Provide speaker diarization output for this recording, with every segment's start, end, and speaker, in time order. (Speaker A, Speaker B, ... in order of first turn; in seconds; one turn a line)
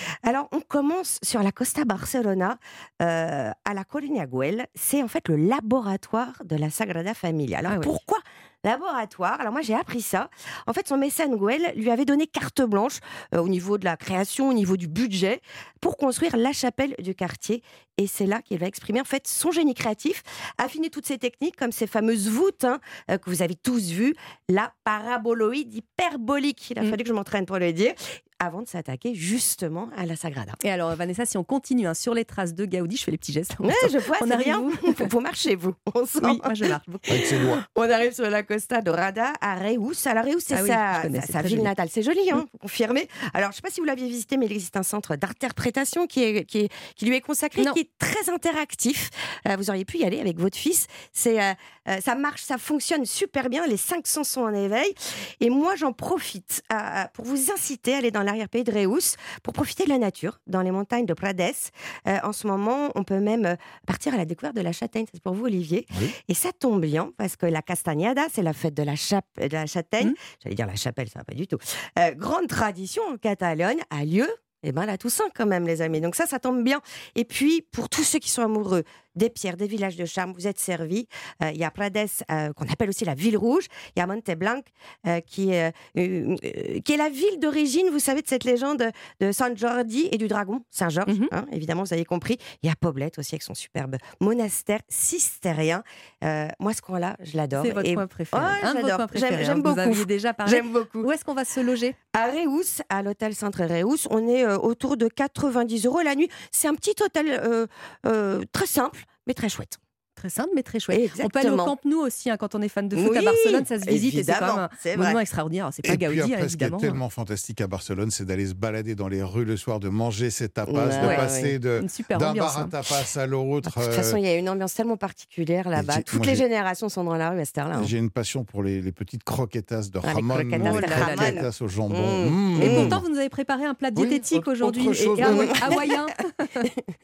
Speaker A: 0.2-30.6
Speaker B: 7.7-7.9
Speaker B: 30.6-35.1
Speaker A: 33.6-36.5
Speaker B: 36.2-37.2
Speaker C: 37.1-37.6
Speaker A: 37.1-101.1
Speaker B: 40.5-41.7
Speaker B: 91.1-91.3
Speaker B: 97.6-102.0
Speaker A: 102.1-109.8
Speaker B: 110.2-117.0
Speaker A: 110.9-111.7
Speaker A: 112.9-115.2
Speaker C: 115.8-124.2
Speaker A: 120.7-121.6
Speaker B: 121.0-122.7
Speaker A: 123.6-127.9
Speaker C: 125.7-126.4
Speaker C: 127.8-133.0
Speaker A: 130.0-132.9
Speaker B: 130.6-131.4
Speaker B: 132.6-136.7
Speaker C: 133.9-135.8
Speaker A: 135.2-136.0